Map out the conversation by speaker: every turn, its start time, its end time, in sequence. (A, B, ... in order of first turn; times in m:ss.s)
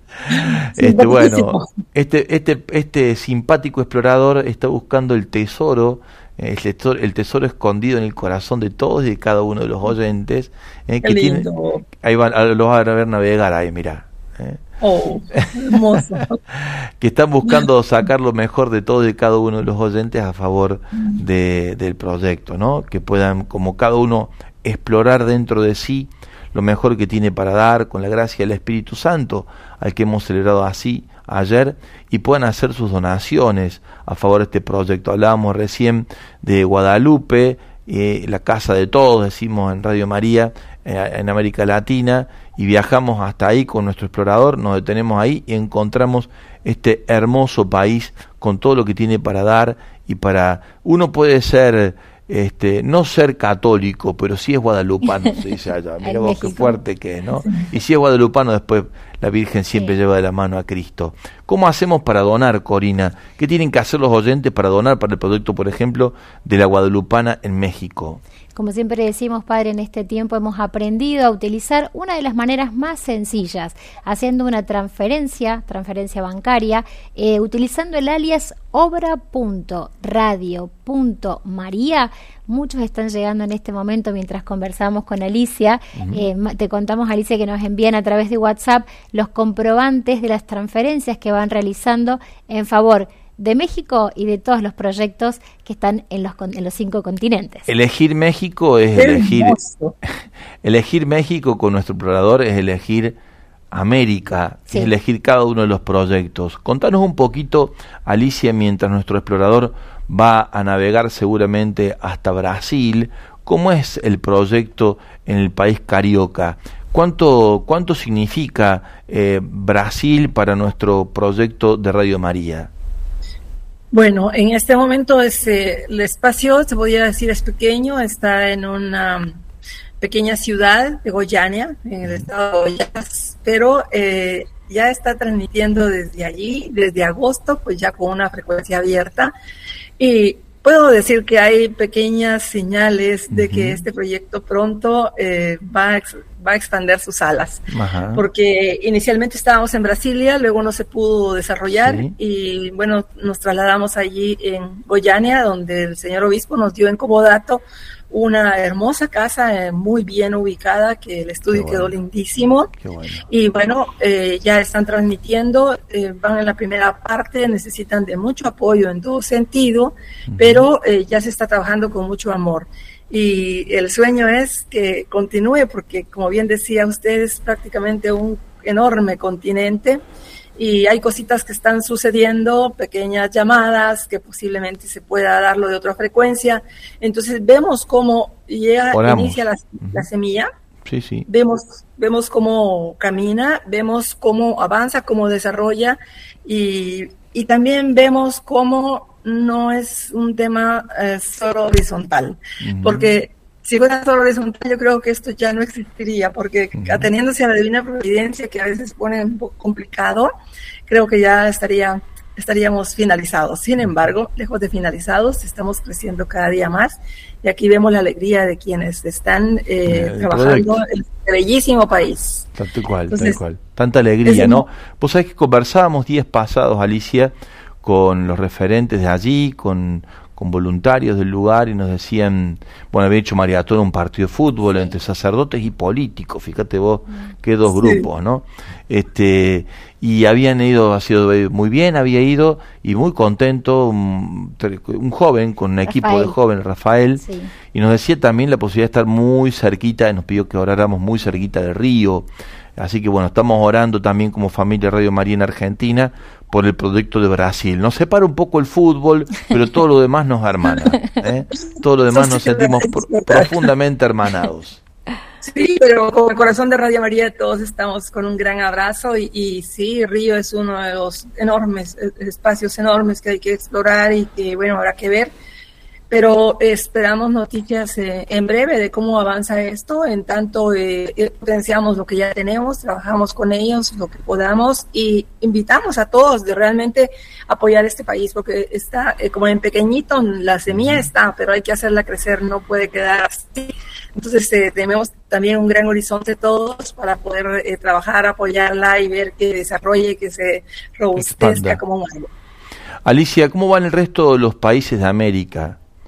0:00.2-0:11.5 A
0:00.7-0:01.7 B
0:11.0-0:11.8 B
0:12.0-0:14.6 A
0:14.8-0:16.4 B
0:16.6-1:08.2 A
0:56.0-0:56.8 C
1:08.5-1:37.7 C
1:25.9-1:26.2 A
1:37.7-1:39.6 A
1:38.9-1:39.9 B
1:40.6-1:43.2 A
1:43.7-2:02.7 A
2:03.9-2:09.4 B
2:10.0-2:19.3 B
2:20.0-2:27.6 B
2:23.3-2:23.8 A
2:27.7-2:28.2 A
2:28.1-2:42.7 B
2:31.8-2:32.1 A
2:41.5-2:42.0 A
2:42.8-2:43.2 A
2:43.3-3:00.0 B
2:50.3-2:50.7 A
3:00.6-3:10.5 B
3:08.9-3:10.1 A
3:10.8-3:11.2 A
3:11.3-3:30.3 B
3:22.6-3:23.1 A
3:26.7-3:27.1 A
3:30.9-3:42.5 B
3:39.8-3:40.7 A
3:42.6-4:24.8 A
3:43.1-3:43.4 B
3:44.2-3:44.6 B
3:57.7-3:58.0 B
4:05.9-4:06.3 C
4:07.2-4:07.5 C
4:22.1-4:23.7 B
4:25.4-4:35.3 B
4:36.1-5:02.3 B
4:50.7-4:51.1 A
5:01.2-5:01.8 A
5:03.0-5:05.8 A